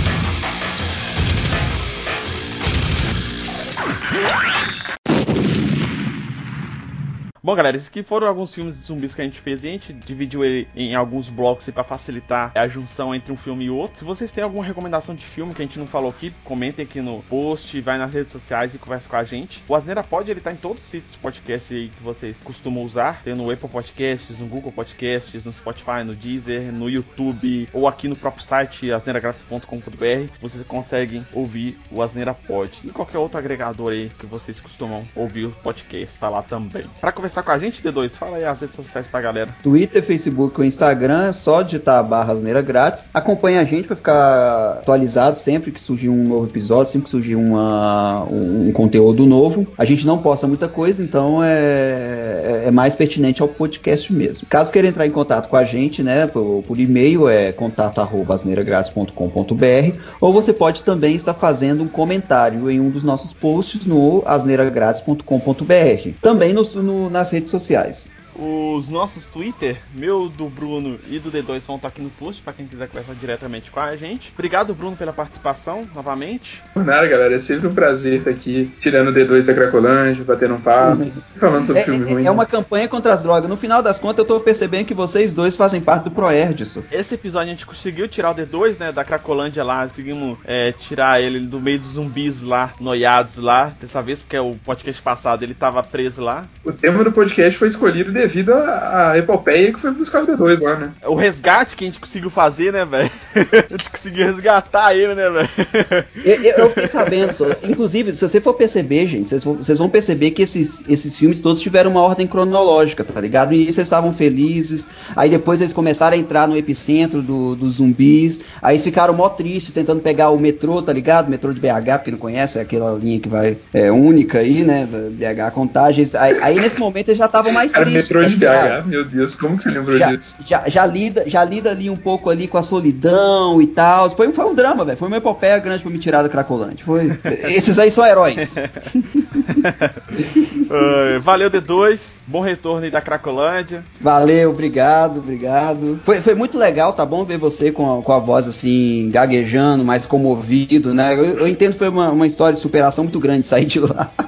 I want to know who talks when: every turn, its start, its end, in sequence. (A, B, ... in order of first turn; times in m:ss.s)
0:07.4-0:39.6 A
0:39.6-1:08.1 B
1:08.3-1:16.6 A
1:16.8-1:22.4 C
1:20.8-1:21.2 B
1:21.7-1:26.9 B
1:26.9-1:36.5 A
1:36.6-1:40.9 C
1:41.0-1:47.4 A
1:46.2-2:08.8 B
2:07.7-2:10.3 C
2:09.9-2:19.6 B
2:17.2-2:17.5 A
2:18.4-2:23.9 A
2:24.0-2:34.1 B